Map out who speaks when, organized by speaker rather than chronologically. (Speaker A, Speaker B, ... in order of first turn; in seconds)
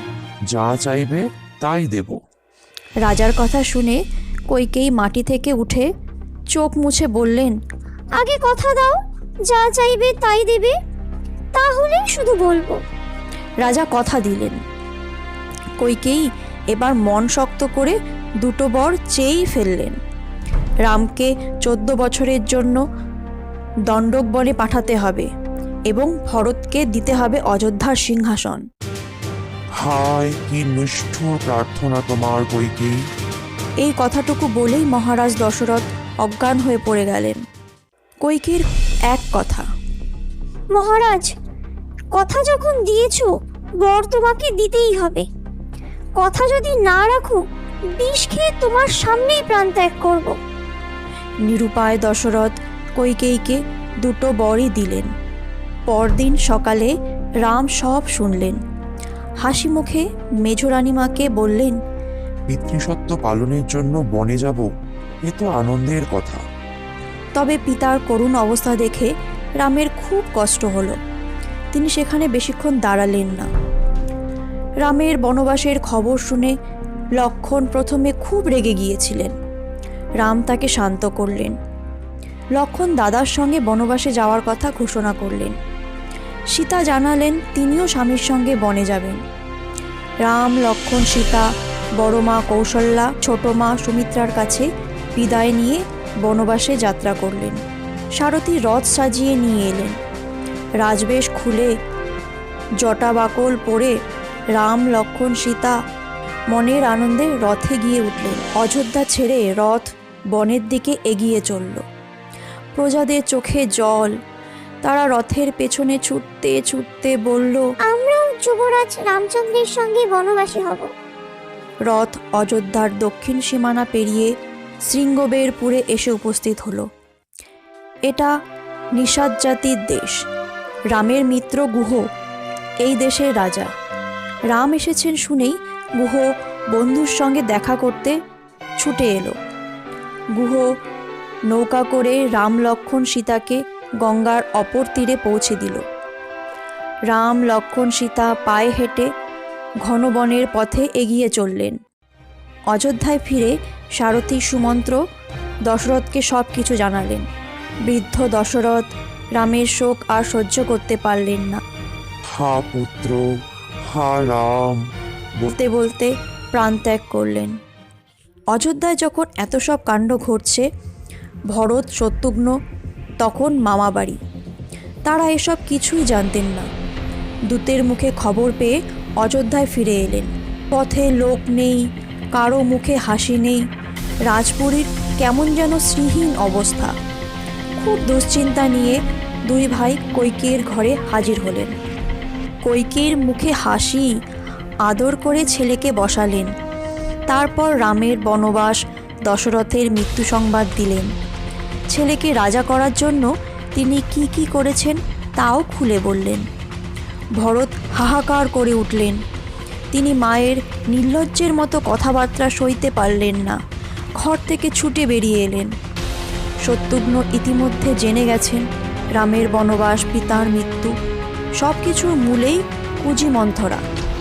Speaker A: 0.5-2.2, 29.8-33.0, 62.5-64.7, 65.2-66.4, 162.3-163.2, 163.9-164.8
Speaker B: 3.0-4.0, 4.5-5.9, 6.5-7.6, 13.6-14.6, 15.8-20.0, 20.9-22.8, 23.9-25.3, 25.9-28.6, 33.8-37.4, 38.2-39.6, 51.5-55.1, 55.9-56.9, 57.4-58.6, 59.4-61.8, 67.4-69.1, 69.6-71.0, 71.7-73.5, 74.8-76.5, 77.2-79.3, 80.2-81.5, 82.6-85.5, 86.5-89.2, 90.2-91.5, 92.0-97.6, 98.2-100.0, 100.8-101.7, 102.8-104.0, 104.6-105.8, 106.5-111.8, 112.8-114.2, 114.8-117.7, 121.9-124.3, 124.8-126.9, 128.1-128.3, 129.0-130.2, 130.9-132.0, 132.8-133.7, 134.5-138.2, 138.8-139.3, 140.4-140.7, 141.5-145.8, 147.1-149.1, 149.8-151.8, 152.7-155.0, 155.7-157.2, 157.9-161.6, 165.5-167.5, 168.5-170.7, 171.5-172.5, 173.2-174.2, 175.1-176.7, 177.5-181.8, 182.3-183.6, 184.3-186.9, 187.8-191.7, 192.6-194.1, 194.9-196.5, 197.3-201.1, 201.9-206.4, 207.4-209.2, 209.9-213.6, 214.2-215.7, 216.7-218.7, 219.2-220.9, 221.6-223.8
Speaker C: 8.2-10.8, 11.6-12.8, 40.7-41.3, 42.1-45.2, 46.2-47.4, 48.0-50.4, 117.9-120.9